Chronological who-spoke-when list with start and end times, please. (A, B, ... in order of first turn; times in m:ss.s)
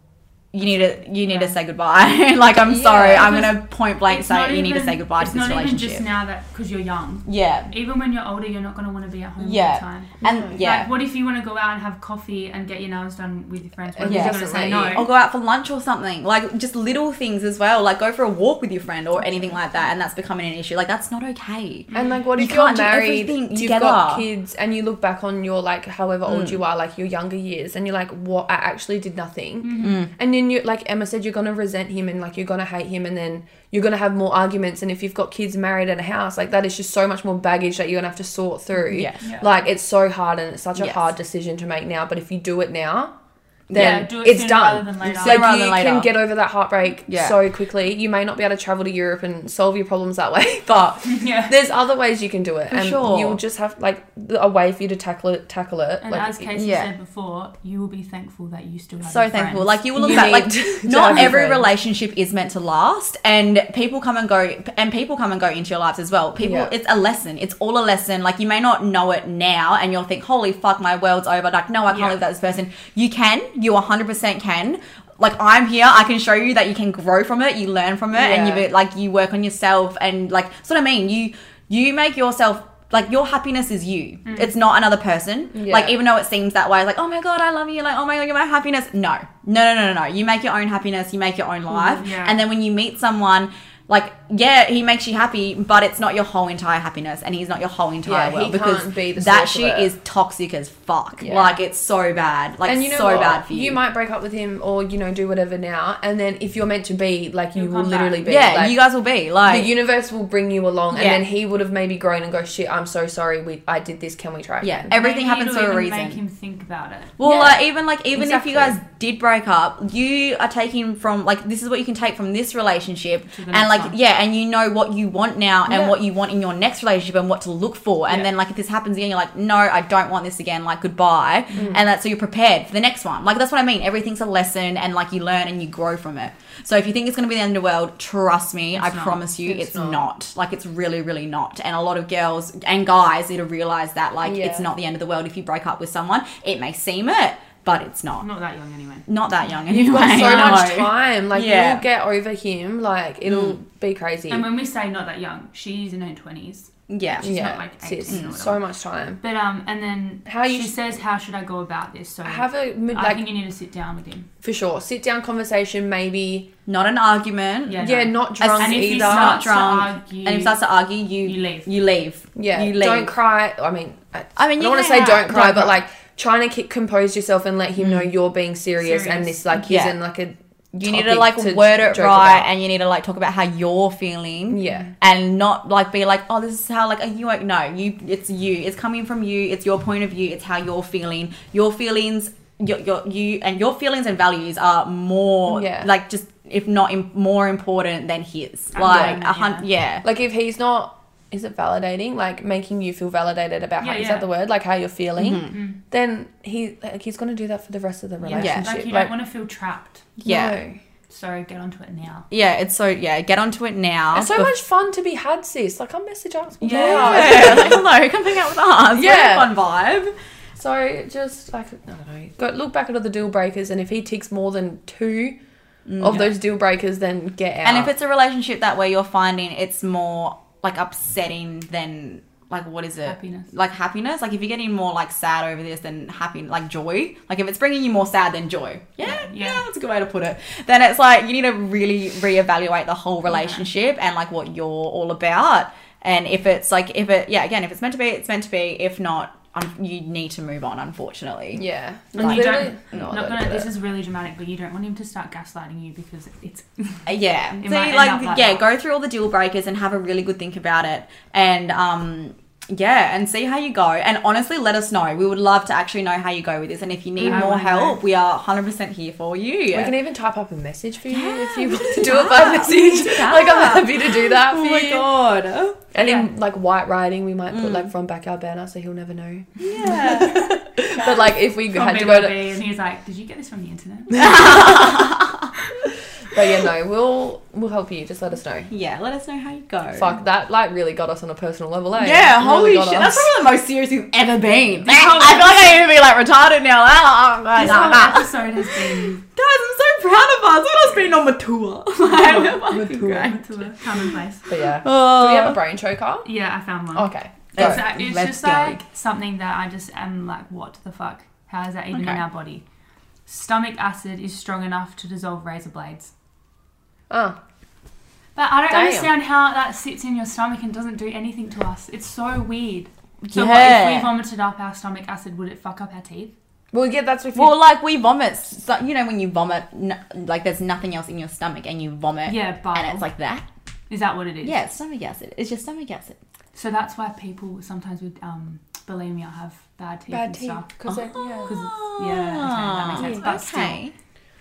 0:00.5-0:06.1 A
0:01.2-0:01.6 B
0:02.6-0:03.5 C
0:03.0-0:15.1 B
0:07.3-0:07.7 A
0:09.4-0:10.9 A
0:10.2-0:10.6 C
0:14.0-0:15.0 C
0:14.0-0:24.2 A
0:21.9-0:22.2 B
0:21.9-0:43.1 C
0:26.3-0:26.6 A
0:29.6-0:30.0 B
0:29.8-0:30.1 A
0:38.9-0:39.2 A
0:39.2-0:39.6 B
0:40.8-0:41.1 A
0:43.7-0:44.1 A
0:43.7-0:56.4 C
0:43.7-0:45.5 B
0:45.0-0:46.1 A
0:47.1-0:47.4 A
0:51.0-0:51.6 B
0:52.7-0:53.4 A
0:56.0-1:00.3 B
0:56.5-0:56.9 A
0:59.0-1:43.8 A
1:00.0-1:01.7 C
1:06.4-1:06.7 C
1:18.1-1:18.7 C
1:24.2-1:24.5 B
1:25.5-1:26.0 C
1:31.7-1:32.0 C
1:31.8-1:32.4 B
1:38.0-1:39.9 C
1:41.2-1:41.5 C
1:42.6-1:48.8 C
1:47.6-1:48.3 B
1:48.2-1:49.7 A
1:49.4-1:54.9 C
1:50.9-1:51.2 A
1:54.6-1:56.2 A
1:54.9-1:57.2 B
1:57.2-2:28.2 A
1:57.2-1:58.8 C
2:03.3-2:04.0 B
2:05.7-2:06.0 C
2:11.6-2:11.8 C
2:18.7-2:19.2 B
2:19.4-2:20.1 C
2:24.2-2:24.7 C
2:28.2-2:29.0 B
2:29.1-2:31.8 A
2:29.7-2:34.5 C
2:30.2-2:30.7 B
2:33.2-2:33.6 A
2:34.3-2:38.6 B
2:36.9-2:37.3 A
2:37.2-2:39.2 C
2:38.1-2:38.4 A
2:39.2-2:44.3 B
2:40.2-2:40.9 C
2:42.2-2:43.3 C
2:44.4-2:46.5 C
2:46.6-2:53.1 A
2:47.7-2:50.6 B
2:47.8-2:49.4 C
2:51.2-2:51.7 B
2:52.4-3:02.5 C
2:54.4-2:55.8 A
2:57.8-2:58.1 A
2:58.8-2:59.5 B
2:59.6-3:00.0 A
3:00.7-3:20.0 A
3:04.5-3:04.9 C
3:15.5-3:15.9 C
3:18.7-3:19.6 B
3:18.8-3:19.2 C
3:20.0-3:29.1 C
3:23.8-3:24.3 B
3:25.2-3:25.5 A
3:25.5-3:25.8 B
3:28.2-3:30.1 B
3:28.3-3:28.7 A
3:30.2-3:30.6 A
3:30.2-3:30.8 C
3:31.1-3:32.2 B
3:32.3-3:34.5 A
3:34.1-3:37.8 C
3:36.6-3:40.1 A
3:36.7-3:37.4 B
3:38.9-3:39.5 C
3:40.6-3:45.4 C
3:45.9-3:46.3 A
3:46.0-3:47.9 C
3:47.6-4:11.6 A
3:53.0-3:53.5 B
3:59.0-3:59.6 B
4:03.3-4:03.6 B
4:11.6-4:13.7 C
4:12.2-4:18.6 B
4:12.2-4:13.2 A
4:17.0-4:29.9 A
4:27.2-4:27.6 C
4:27.2-4:28.0 B
4:29.7-4:35.1 C
4:31.1-4:35.8 A
4:32.2-4:32.7 B
4:35.9-4:42.4 C
4:36.0-4:36.3 B
4:37.5-4:37.9 A
4:39.6-4:41.1 A
4:39.9-4:45.0 B
4:44.1-4:45.5 A
4:46.3-4:48.7 C
4:48.7-4:50.1 A
4:49.9-4:53.3 C
4:52.0-5:03.9 A
4:54.8-4:55.6 B
4:57.6-4:59.2 B
4:57.6-4:58.1 C
5:02.0-5:04.5 B
5:02.6-5:03.4 C
5:04.5-5:06.3 C
5:04.8-5:05.6 A
5:06.2-5:12.6 B
5:06.9-5:08.0 C
5:07.5-5:08.8 A
5:11.9-5:12.2 A
5:13.3-5:16.1 B
5:17.1-5:17.4 C
5:18.4-5:26.3 B
5:18.7-5:19.1 C
5:23.2-5:24.1 A
5:26.7-5:27.6 C
5:27.3-5:33.4 A
5:32.2-5:33.0 B
5:33.9-5:34.6 B
5:34.4-5:36.2 A
5:36.5-5:43.8 B
5:40.1-5:41.5 C
5:40.9-5:43.9 A
5:42.9-5:43.3 C